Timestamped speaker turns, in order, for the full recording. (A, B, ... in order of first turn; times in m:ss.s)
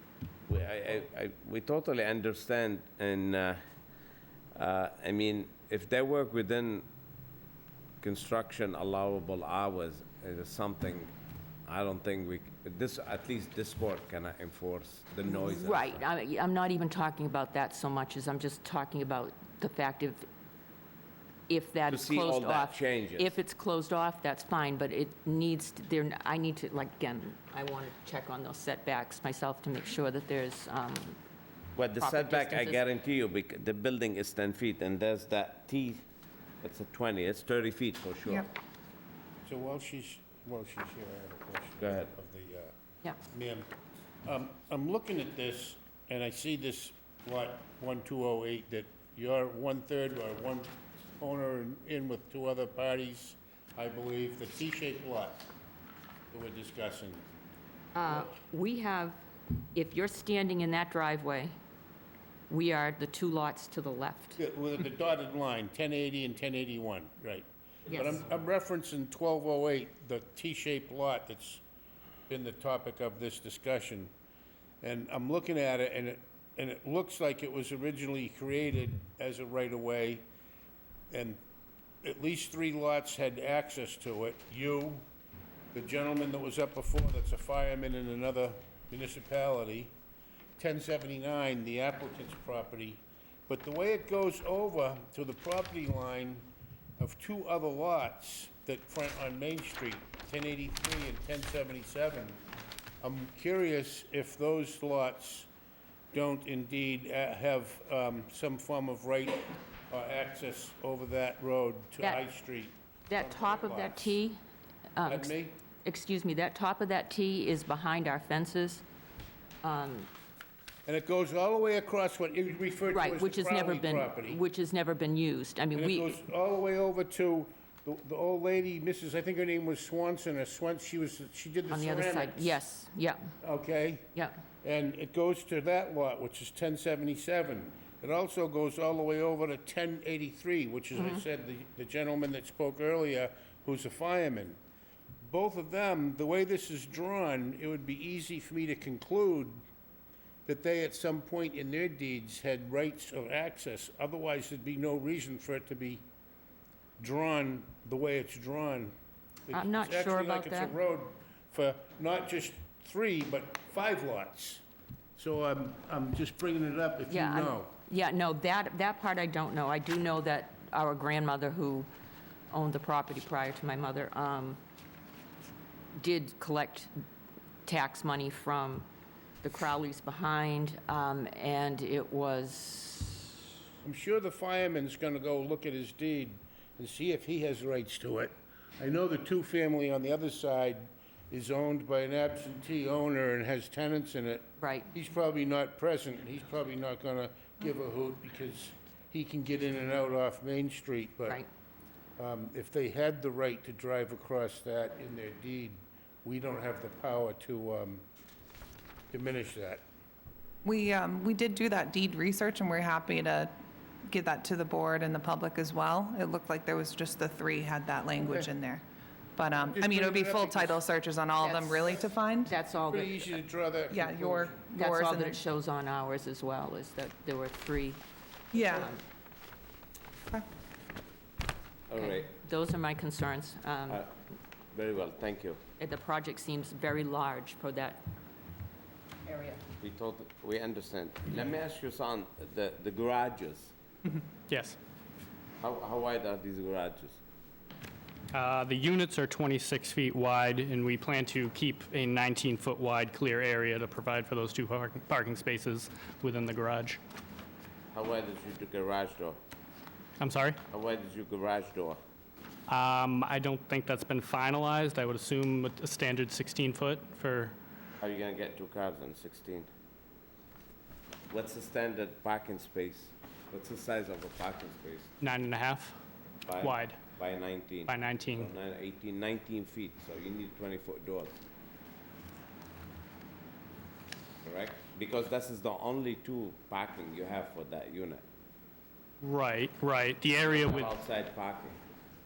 0:00.5-0:03.6 A
0:04.5-0:06.8 A
0:08.0-0:11.1 A
0:11.6-0:16.0 A
0:15.2-0:20.2 B
0:21.5-0:31.2 B
0:21.9-0:23.3 A
0:31.8-0:36.0 A
0:32.0-0:32.8 B
0:36.6-0:38.5 A
0:39.4-0:42.7 C
0:41.8-0:42.1 A
0:43.3-0:43.7 C
0:44.2-0:55.5 C
0:56.3-0:57.3 C
0:57.9-0:59.2 B
0:59.7-1:01.5 B
1:02.5-1:04.4 B
1:04.4-1:11.6 C
1:07.9-1:08.2 B
1:12.3-1:14.1 C
1:14.8-1:20.2 C
1:21.1-1:21.4 C
1:22.0-1:25.1 C
1:25.7-1:29.9 C
1:30.6-1:42.4 C
1:43.0-1:45.5 C
1:46.1-1:54.2 C
1:53.1-1:54.4 B
1:54.9-1:58.8 B
1:55.0-1:55.6 C
1:59.6-2:00.1 B
2:00.8-2:04.4 C
2:02.9-2:06.2 B
2:05.7-2:12.6 C
2:11.7-2:13.3 B
2:13.4-2:14.1 C
2:14.6-2:24.6 C
2:20.9-2:21.2 B
2:25.2-2:29.6 C
2:30.4-2:36.1 C
2:37.0-2:38.9 C
2:39.5-2:44.6 C
2:39.5-2:40.7 B
2:45.2-2:47.7 C
2:47.1-2:51.9 B
2:52.5-2:54.6 B
2:55.9-2:56.9 B
2:57.6-2:58.9 B
2:59.4-3:03.4 B
3:03.8-3:21.4 C
3:14.6-3:14.9 B
3:22.2-3:28.0 C
3:29.1-3:29.8 C
3:30.6-3:33.5 D
3:34.1-3:38.8 D
3:38.2-3:38.5 C
3:39.4-3:42.5 D
3:39.6-3:40.8 C
3:41.4-3:43.4 B
3:42.9-3:44.7 C
3:43.9-3:45.4 D
3:44.8-3:48.0 B
3:48.5-3:48.9 D
3:48.6-3:49.0 B
3:51.9-3:52.3 A
3:51.9-3:54.0 B
3:54.7-3:55.6 A
3:55.8-3:58.0 B
3:59.2-3:59.6 B
3:59.8-4:03.7 A
4:04.5-4:04.8 E
4:05.6-4:07.2 A
4:08.3-4:17.0 E
4:17.9-4:19.4 A
4:20.2-4:20.6 E
4:20.7-4:22.0 A
4:22.7-4:27.5 E
4:28.0-4:29.7 A
4:31.3-4:35.1 A
4:35.2-4:35.9 E
4:36.5-4:41.4 A
4:36.6-4:37.0 E
4:37.9-4:38.5 E
4:44.4-4:48.2 A
4:49.2-4:50.9 E
4:50.4-4:51.8 A